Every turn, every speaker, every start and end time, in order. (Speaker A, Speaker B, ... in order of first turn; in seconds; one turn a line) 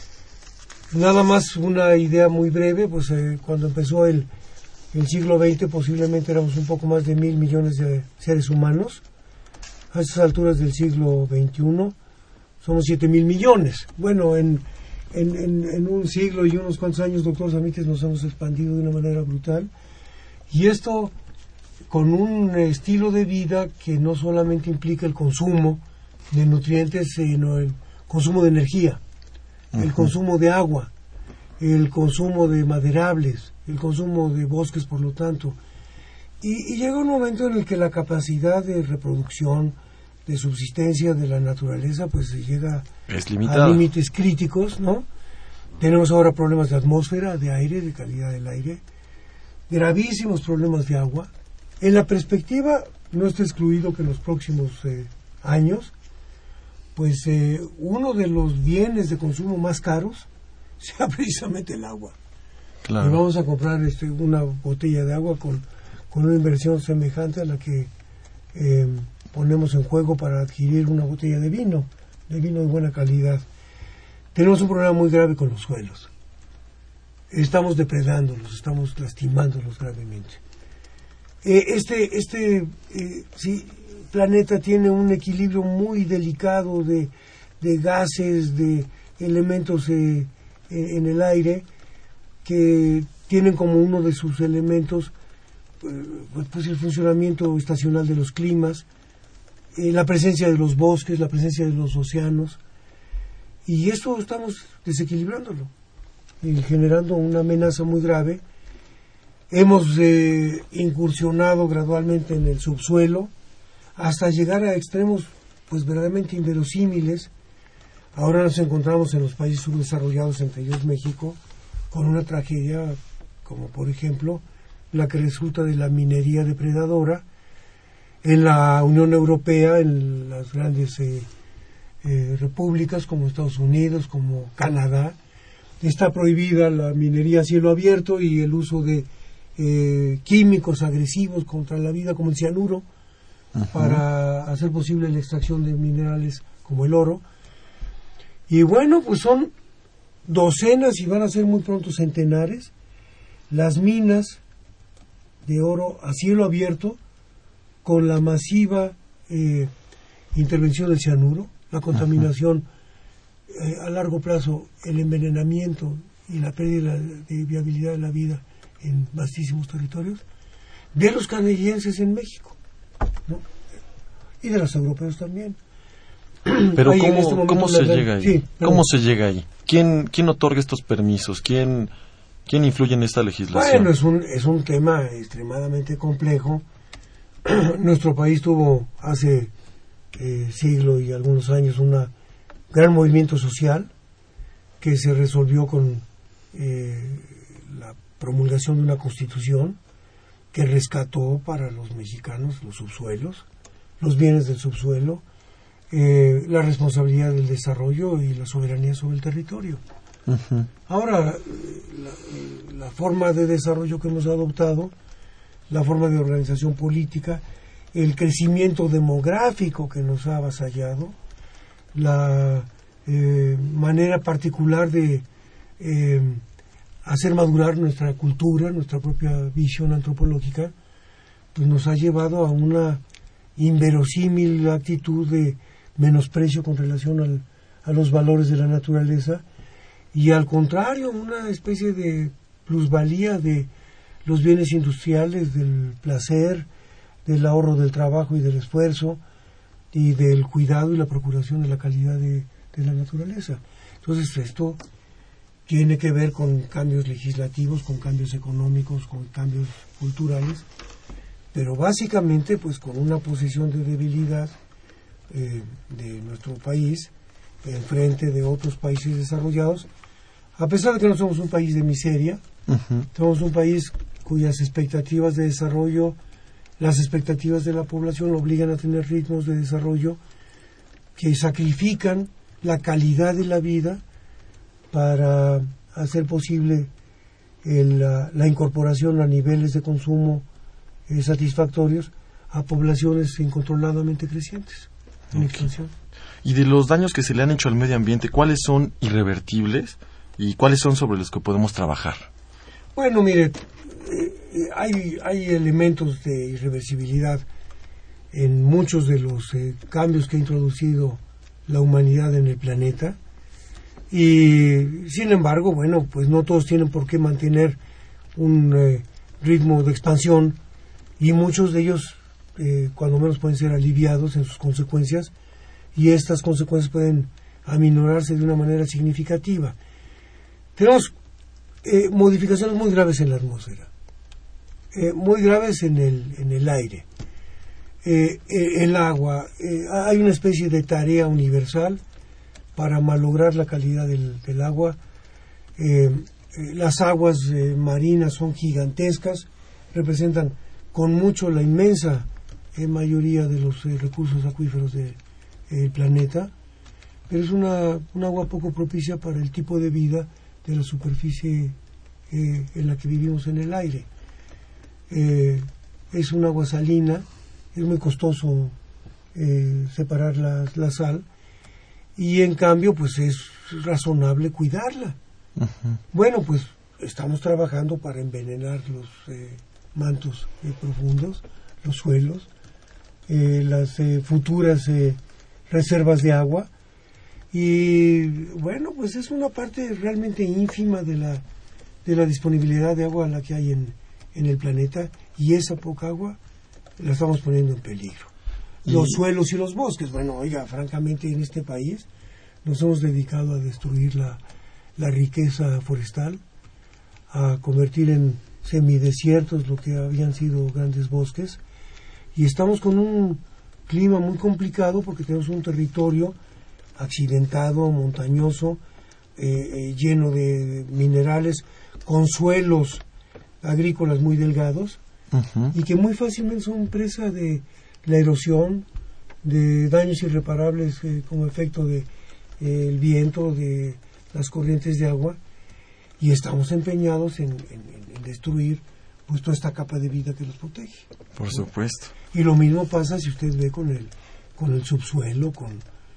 Speaker A: 0.9-4.3
Speaker A: 4.9-9.0
Speaker A: 9.9-11.9
Speaker A: 12.6-19.7
Speaker A: 20.5-21.1
Speaker A: 21.9-29.0
Speaker B: 29.7-30.1
Speaker A: 29.8-30.9
Speaker A: 31.6-35.6
Speaker A: 36.4-42.9
Speaker B: 43.1-43.8
Speaker A: 43.4-45.0
Speaker A: 45.8-48.8
Speaker A: 49.7-51.3
Speaker A: 51.8-55.9
Speaker A: 56.9-60.3
Speaker A: 60.8-62.1
Speaker B: 62.8-63.2
Speaker A: 63.0-67.9
Speaker A: 68.5-73.5
Speaker A: 74.3-76.1
Speaker A: 77.3-80.4
Speaker A: 81.4-91.7
Speaker A: 92.4-95.1
Speaker A: 95.8-98.8
Speaker A: 99.7-102.6
Speaker A: 103.7-105.7
Speaker A: 106.4-108.4
Speaker A: 109.5-113.3
Speaker A: 114.0-117.3
Speaker A: 118.1-121.4
Speaker A: 121.9-127.2
Speaker A: 128.2-131.3
Speaker A: 132.0-135.2
Speaker A: 135.8-142.8
Speaker B: 143.6-144.0
Speaker A: 143.7-147.2
Speaker A: 148.5-149.5
Speaker A: 150.2-152.7
Speaker A: 153.5-154.4
Speaker A: 155.4-157.0
Speaker A: 157.8-159.7
Speaker A: 160.3-162.7
Speaker A: 163.5-170.2
Speaker A: 170.9-172.6
Speaker A: 174.4-175.6
Speaker A: 176.4-178.8
Speaker B: 176.8-181.9
Speaker B: 182.4-183.9
Speaker A: 183.5-186.6
Speaker A: 187.4-189.5
Speaker A: 190.1-192.1
Speaker A: 192.7-193.9
Speaker A: 194.8-199.8
Speaker A: 200.5-203.4
Speaker A: 204.0-205.2
Speaker A: 205.9-209.8
Speaker B: 210.3-210.7
Speaker A: 210.9-214.9
Speaker A: 215.7-221.2
Speaker A: 221.9-225.2
Speaker A: 225.8-226.4
Speaker A: 227.0-230.7
Speaker A: 231.5-233.0
Speaker A: 233.6-239.4
Speaker A: 240.1-243.7
Speaker A: 244.2-246.7
Speaker A: 247.2-249.2
Speaker A: 249.9-254.8
Speaker A: 255.7-260.6
Speaker A: 261.5-264.6
Speaker A: 265.3-267.1
Speaker A: 267.6-269.9
Speaker A: 270.6-272.4
Speaker B: 272.7-273.1
Speaker A: 273.1-276.2
Speaker A: 276.8-280.2
Speaker A: 281.1-284.0
Speaker A: 284.9-286.9
Speaker A: 287.6-290.4
Speaker A: 291.1-295.9
Speaker B: 295.3-295.6
Speaker B: 296.4-302.3
Speaker A: 302.9-307.4
Speaker A: 308.3-313.2
Speaker A: 314.1-317.8
Speaker A: 318.4-320.6
Speaker A: 321.2-325.3
Speaker A: 325.9-329.8
Speaker A: 330.8-331.1
Speaker A: 331.8-333.9
Speaker A: 334.9-337.1
Speaker A: 338.0-342.0
Speaker A: 342.7-345.0
Speaker A: 345.8-355.2
Speaker A: 355.7-356.5
Speaker A: 357.3-361.8
Speaker A: 362.3-364.1
Speaker A: 365.1-368.7
Speaker A: 369.3-371.2
Speaker A: 372.1-375.2
Speaker B: 375.6-376.0
Speaker A: 376.1-382.5
Speaker A: 383.3-385.2
Speaker A: 385.7-386.7
Speaker A: 387.5-391.4
Speaker A: 392.0-396.4
Speaker A: 397.0-398.3
Speaker A: 398.9-402.1
Speaker A: 402.6-404.4
Speaker A: 405.0-406.4
Speaker A: 407.3-411.6
Speaker A: 412.3-416.4
Speaker A: 417.0-418.8
Speaker A: 419.4-423.0
Speaker A: 423.6-425.0
Speaker B: 425.3-425.7
Speaker A: 425.7-428.9
Speaker A: 429.4-432.1
Speaker A: 432.6-435.4
Speaker A: 436.2-441.7
Speaker B: 441.4-442.1
Speaker A: 442.3-445.8